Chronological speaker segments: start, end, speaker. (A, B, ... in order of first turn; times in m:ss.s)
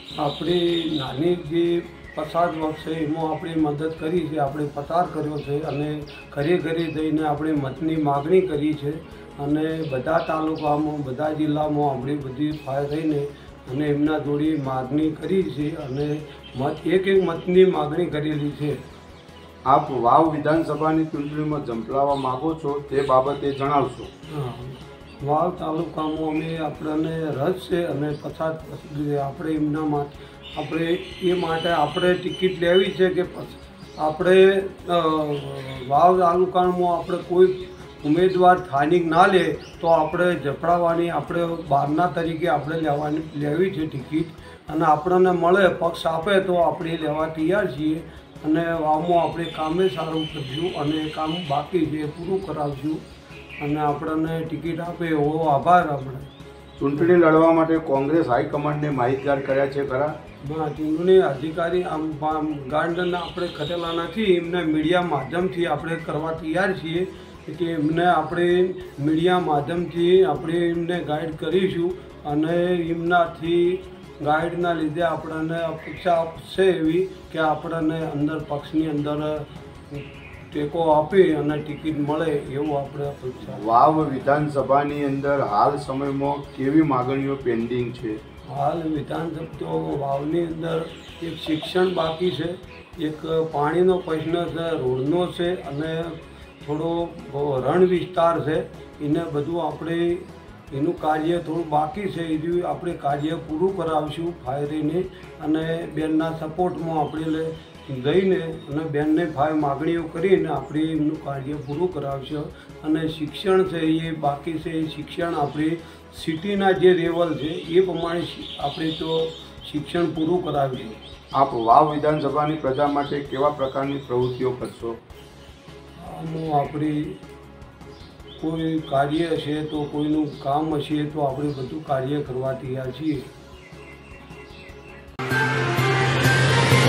0:00.2-0:18.8 A
0:19.7-0:24.1 B
0:24.3-0:53.0 A
0:53.6-0:56.3 A
0:56.8-1:00.1 B
1:00.5-1:23.7 A
1:23.4-1:28.2 B
1:28.5-2:01.0 A
2:01.4-2:05.0 B
2:06.0-2:07.2 A
2:08.4-2:13.2 A